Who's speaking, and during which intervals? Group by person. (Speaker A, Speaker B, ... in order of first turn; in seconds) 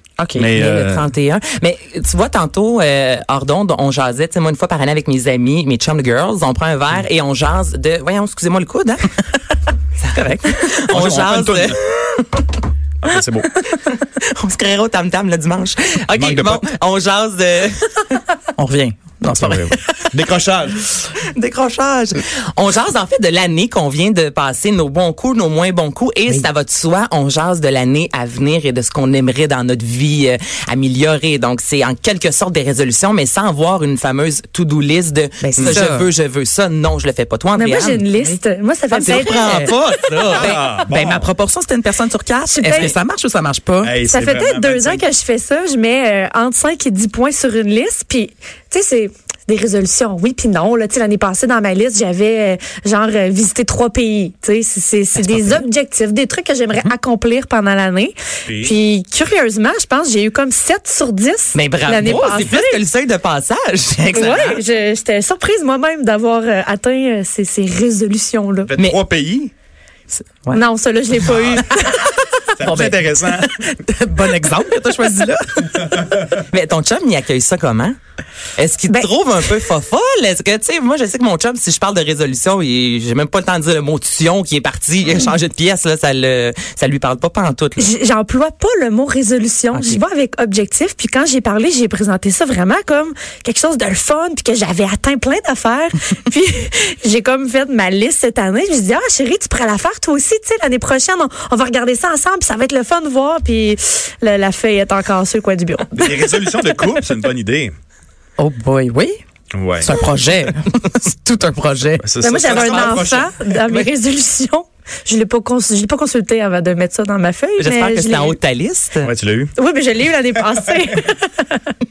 Speaker A: 0.2-0.5, 10.1-10.5, 18.6-20.1, 35.4-36.1, 39.0-39.3, 40.4-44.0, 70.1-72.0, 72.6-76.0, 108.4-109.2, 109.8-112.1
Speaker B: 0.3-1.1, 10.9-11.8, 13.0-13.5, 16.1-16.7, 19.3-20.9, 40.1-41.3, 43.8-45.0, 58.5-58.8, 68.7-69.5, 72.6-73.5, 105.9-107.7, 109.5-109.9, 112.0-113.9, 119.0-119.5
Speaker C: 0.5-9.2, 10.0-12.4, 13.7-18.2, 21.2-38.0, 38.9-40.6, 61.5-64.6, 76.5-77.9, 78.6-87.9, 89.7-90.0, 112.4-113.0, 117.6-119.1
Speaker D: 37.5-40.5, 42.5-42.9, 44.0-62.8, 64.1-68.7, 70.5-72.1, 87.8-106.5, 112.2-118.4, 119.5-121.7